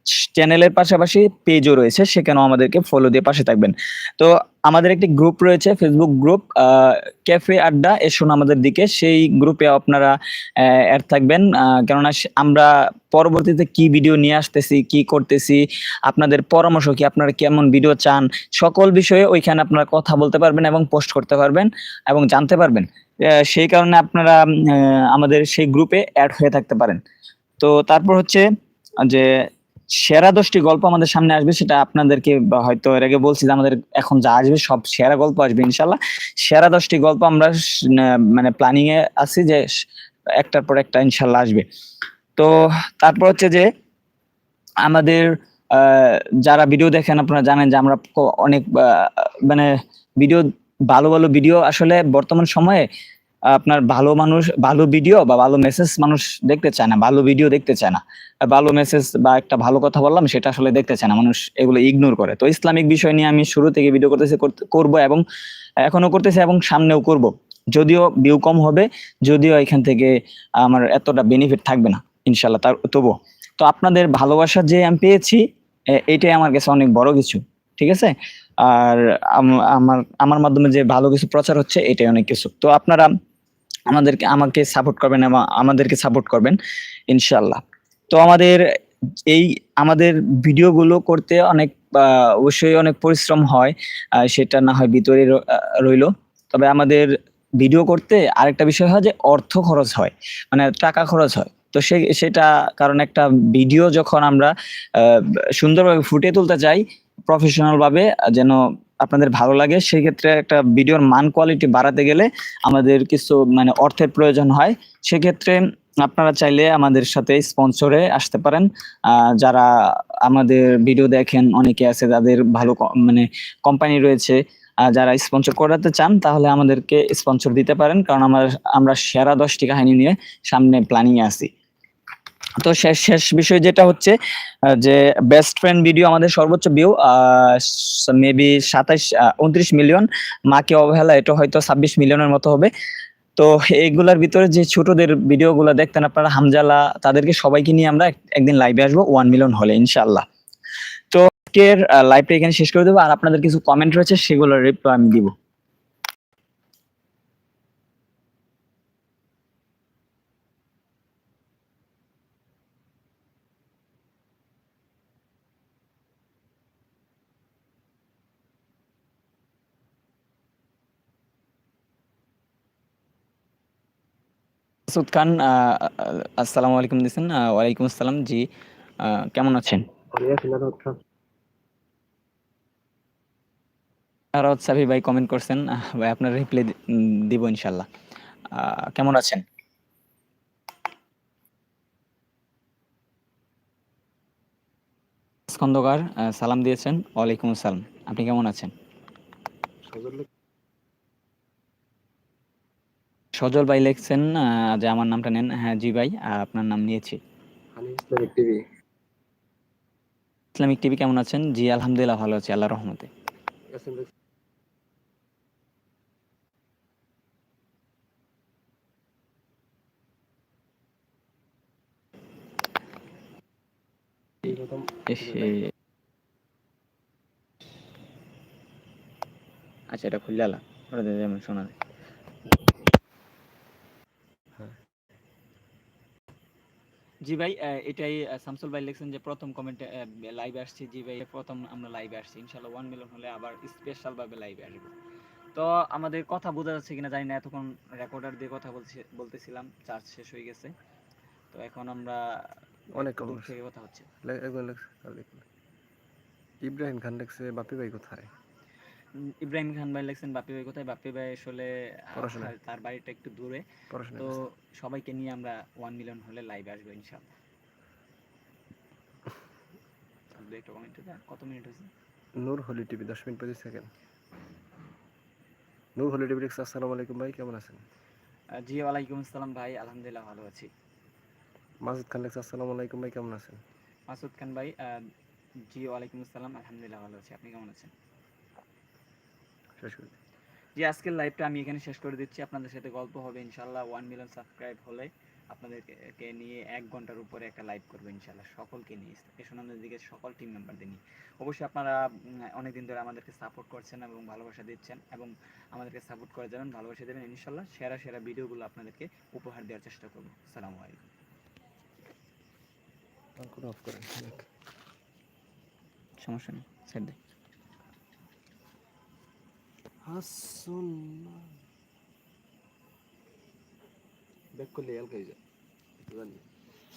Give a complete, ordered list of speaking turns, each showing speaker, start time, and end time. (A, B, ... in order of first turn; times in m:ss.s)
0:00.3-0:27.0 A
0:27.6-0:28.4 A
0:29.1-0:29.3 A
0:30.0-0:39.6 A
0:40.4-0:41.6 A
0:42.4-0:43.6 A
0:44.8-0:52.9 A
0:53.6-1:05.2 A
1:05.8-1:10.1 A
1:10.6-1:15.4 A
1:16.0-1:18.1 A
1:18.6-1:23.1 A
1:23.9-1:26.6 A
1:27.1-1:28.6 A
1:29.3-1:33.8 A
1:34.3-1:59.7 A
2:00.2-2:11.5 A
2:12.6-2:14.1 A
2:14.8-2:22.7 A
2:23.4-2:30.2 A
2:31.1-2:35.3 A
2:54.9-2:58.4 A
2:59.0-2:59.8 A
3:00.2-3:00.9 B
3:04.4-3:07.9 A
3:08.5-3:09.4 A
3:15.5-3:18.7 A
3:19.9-3:20.3 B
3:23.4-3:27.2 A
3:27.8-3:28.6 B
3:30.6-3:33.1 A
3:33.7-3:34.1 B
3:44.4-3:45.6 B
3:45.1-3:45.7 A
3:49.9-3:51.7 A
3:57.3-4:04.9 A
4:05.5-4:10.7 A
4:11.5-4:12.2 A
4:13.0-4:13.5 B
4:13.0-4:14.1 A
4:14.2-4:15.4 B
4:16.6-4:18.3 B
4:19.4-4:23.6 A
4:22.2-4:22.5 B
4:23.9-4:24.4 B
4:24.2-4:27.2 A
4:30.3-4:31.9 A
4:32.4-4:33.9 B
4:36.0-4:37.8 B
4:38.6-4:40.7 A
4:41.8-4:43.6 B
4:44.1-4:44.8 A
4:45.7-4:47.9 A
4:49.8-4:50.2 B
4:50.8-5:02.0 A
5:02.5-5:11.0 A
5:13.4-5:14.5 B
5:16.2-5:17.2 A
5:20.0-5:21.5 B
5:24.6-5:25.4 B
5:26.0-5:26.4 B